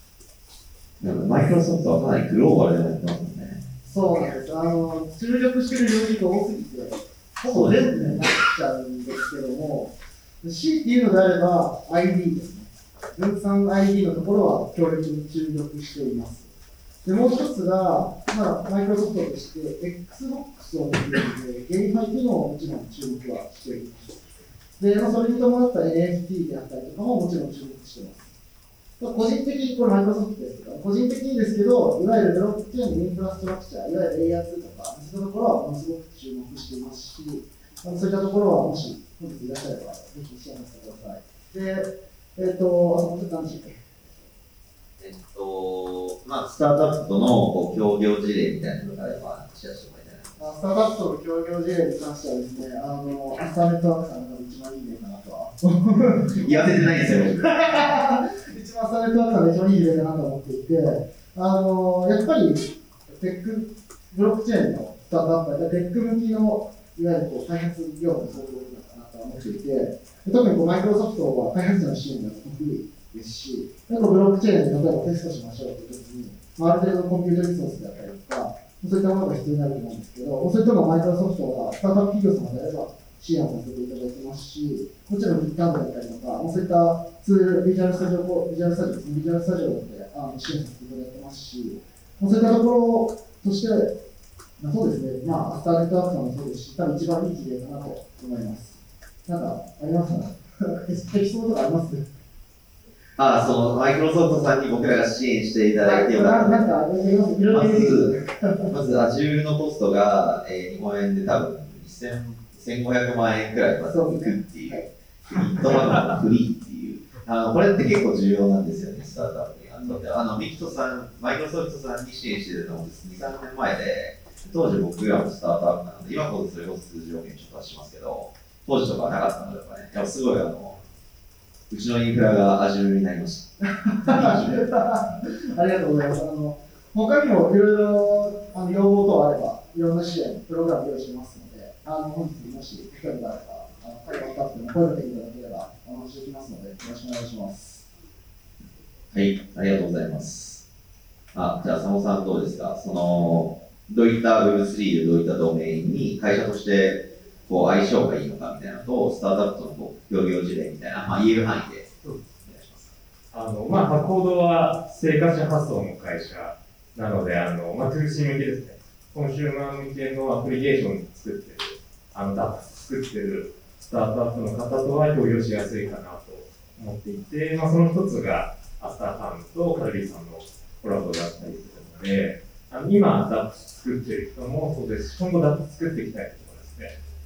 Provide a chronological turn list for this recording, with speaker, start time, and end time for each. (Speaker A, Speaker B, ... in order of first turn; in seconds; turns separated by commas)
Speaker A: 1.0-3.6, Speaker B: 3.9-16.5, Speaker A: 7.5-8.2, Speaker B: 17.0-24.2, Speaker B: 24.8-28.3, Speaker B: 29.0-44.3, Speaker A: 45.0-50.4, Speaker B: 50.4-94.0, Speaker A: 56.3-58.0, Speaker B: 94.6-102.1, Speaker A: 103.2-106.7, Speaker B: 105.8-108.7, Speaker A: 107.5-108.1, Speaker A: 108.7-130.8, Speaker B: 113.8-114.9, Speaker A: 131.7-133.5, Speaker B: 133.8-147.8, Speaker A: 134.0-134.6, Speaker A: 149.1-150.6, Speaker A: 151.3-162.9, Speaker C: 163.3-186.9